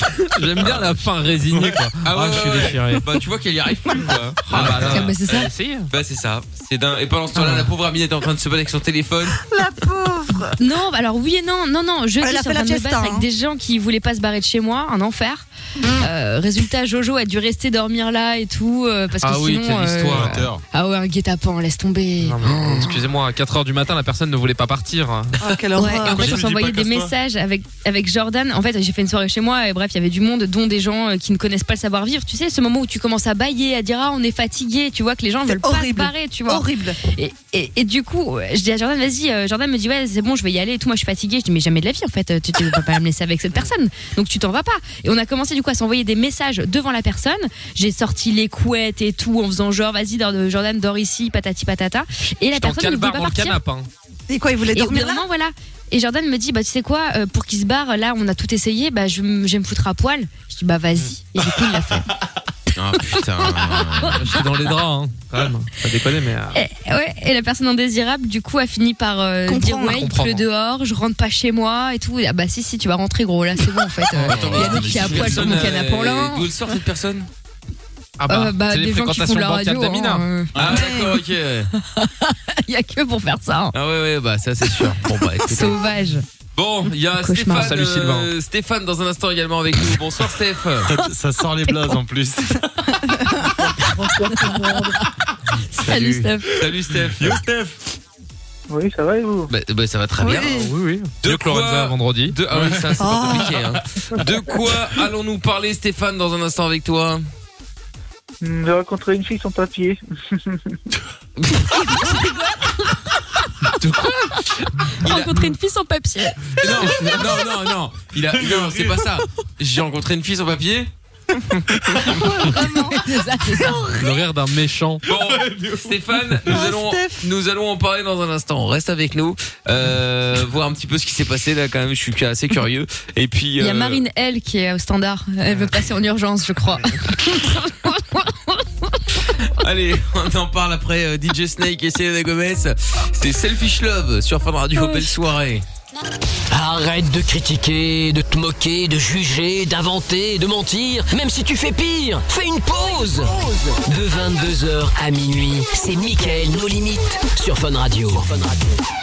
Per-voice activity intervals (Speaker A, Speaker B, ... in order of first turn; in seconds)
Speaker A: 0.3-3.1, 4.4-5.9, 7.4-7.7, 19.2-20.4, 22.2-25.5, 52.5-53.9, 64.2-66.6, 69.9-70.5, 74.1-75.7, 78.2-80.2, 87.5-88.3, 100.5-103.2, 113.8-114.4, 123.9-125.0
Speaker B: 1.5-1.8, 20.1-20.6, 26.1-27.1, 90.8-92.6, 97.1-97.8, 118.3-119.0, 125.2-126.0
Speaker C: 2.0-5.1, 5.9-9.4, 62.7-64.4, 74.2-77.3, 80.5-81.7, 83.7-85.8, 86.5-90.9, 95.9-97.4, 99.5-100.7, 101.2-107.2, 111.4-111.7, 114.6-115.5, 116.6-120.9, 125.1-134.0, 139.5-145.6
Speaker D: 4.8-5.5, 10.6-15.4, 16.0-22.9, 25.7-53.6, 54.7-62.1, 66.5-76.5, 78.3-80.5, 81.8-83.7, 85.4-86.2, 87.2-87.7, 95.7-96.5, 111.9-112.3, 115.0-117.1, 122.5-123.9, 133.6-139.3, 144.8-145.1
Speaker E: 9.3-10.6, 12.2-13.2, 15.8-16.1, 25.4-26.4, 35.5-37.0, 54.3-55.2, 69.5-70.1, 80.6-81.2, 100.2-100.7, 103.0-103.8, 122.1-123.0, 123.6-124.0, 126.5-127.2
Speaker F: 94.0-94.5, 98.7-99.5, 108.4-110.8
Speaker G: 146.5-158.8